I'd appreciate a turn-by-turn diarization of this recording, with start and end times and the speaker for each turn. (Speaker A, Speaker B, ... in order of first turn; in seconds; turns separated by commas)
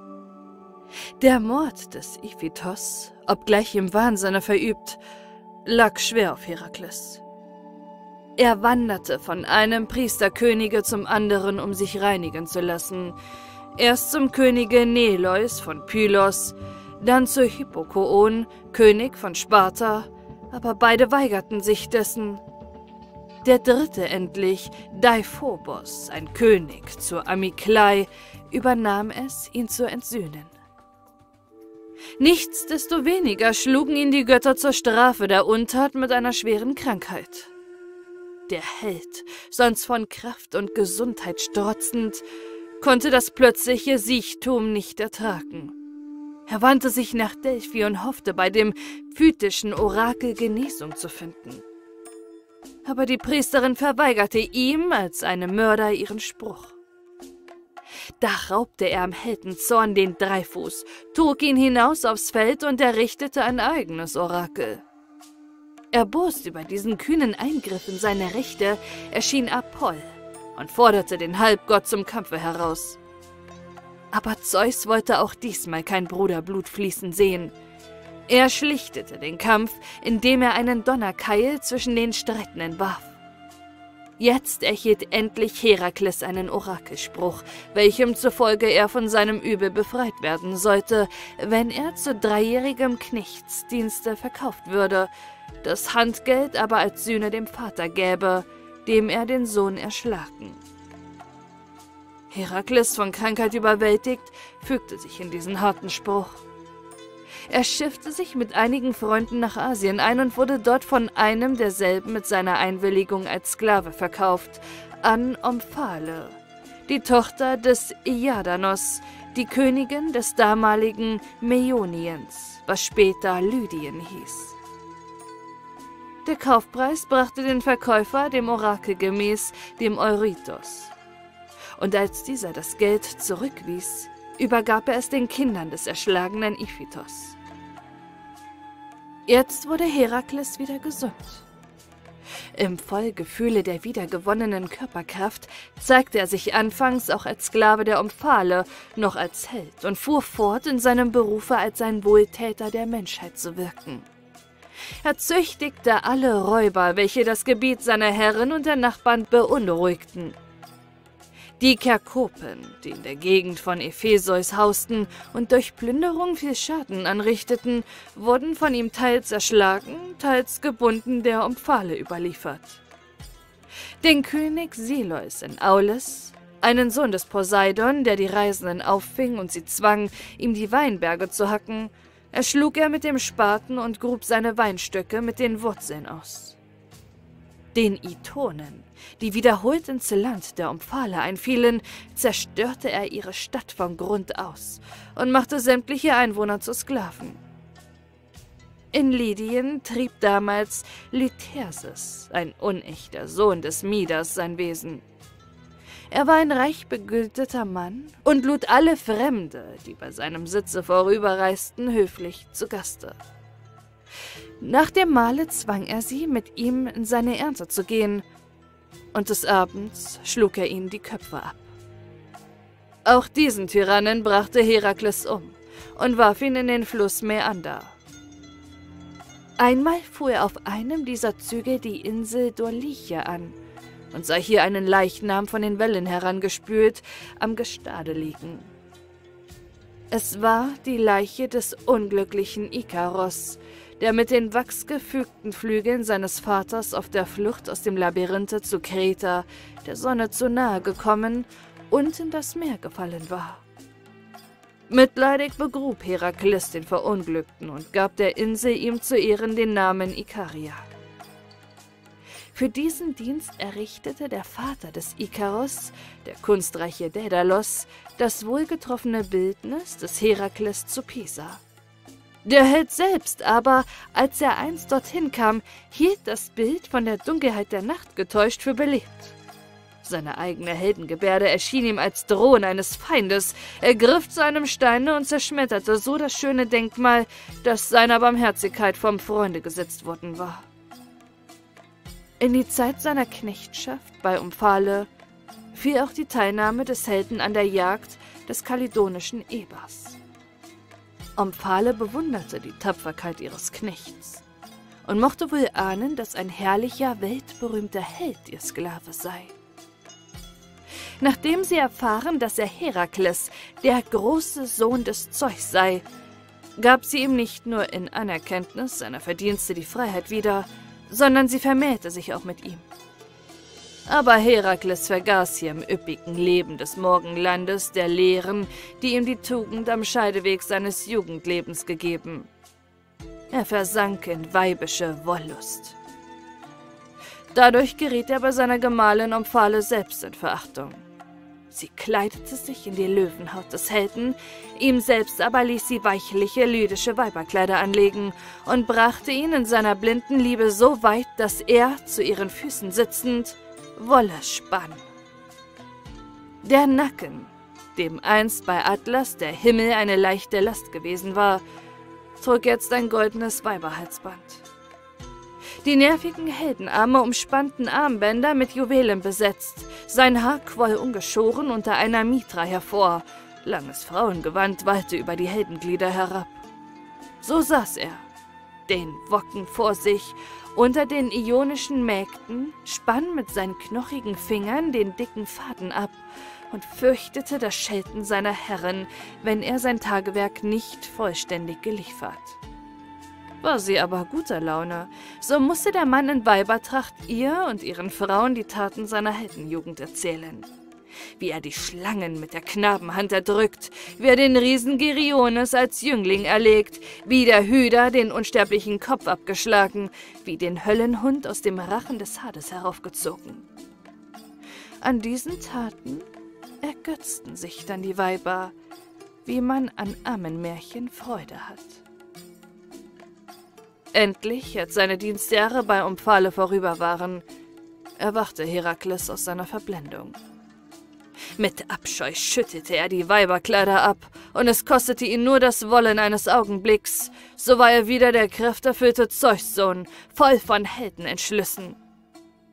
Speaker A: 1.2-5.0, Speaker A: 5.7-7.2, Speaker A: 8.4-13.2, Speaker A: 13.8-22.4, Speaker A: 23.4-30.5, Speaker A: 32.2-37.5, Speaker A: 38.5-42.2, Speaker A: 42.8-45.7, Speaker A: 46.5-51.6, Speaker A: 52.9-56.8, Speaker A: 58.2-64.8, Speaker A: 65.9-73.0, Speaker A: 74.1-77.5, Speaker A: 78.3-83.2, Speaker A: 84.2-95.1, Speaker A: 95.6-100.6, Speaker A: 102.3-106.4, Speaker A: 107.5-124.6, Speaker A: 126.2-130.9, Speaker A: 131.8-137.4, Speaker A: 139.3-141.5, Speaker A: 142.5-154.1, Speaker A: 155.0-160.4, Speaker A: 161.6-172.8, Speaker A: 174.0-186.6, Speaker A: 187.7-197.4, Speaker A: 198.9-205.0, Speaker A: 206.1-213.2, Speaker A: 214.6-218.2, Speaker A: 219.1-221.8, Speaker A: 223.1-228.0, Speaker A: 229.6-233.6, Speaker A: 234.1-238.7, Speaker A: 240.1-253.6, Speaker A: 254.9-260.9, Speaker A: 262.5-271.6, Speaker A: 272.4-279.4, Speaker A: 280.0-290.7, Speaker A: 292.4-295.1, Speaker A: 295.7-300.2, Speaker A: 301.4-304.4, Speaker A: 305.1-309.5, Speaker A: 311.2-316.1, Speaker A: 316.8-322.9, Speaker A: 324.1-332.5, Speaker A: 333.5-336.0, Speaker A: 337.5-341.0, Speaker A: 341.7-355.1, Speaker A: 356.6-361.6, Speaker A: 362.4-364.6, Speaker A: 365.8-376.6, Speaker A: 377.4-378.3, Speaker A: 378.9-392.6, Speaker A: 393.6-400.7, Speaker A: 401.4-413.6, Speaker A: 415.0-416.3, Speaker A: 416.8-418.8, Speaker A: 419.4-422.0, Speaker A: 424.1-427.4, Speaker A: 428.2-430.4, Speaker A: 431.6-442.0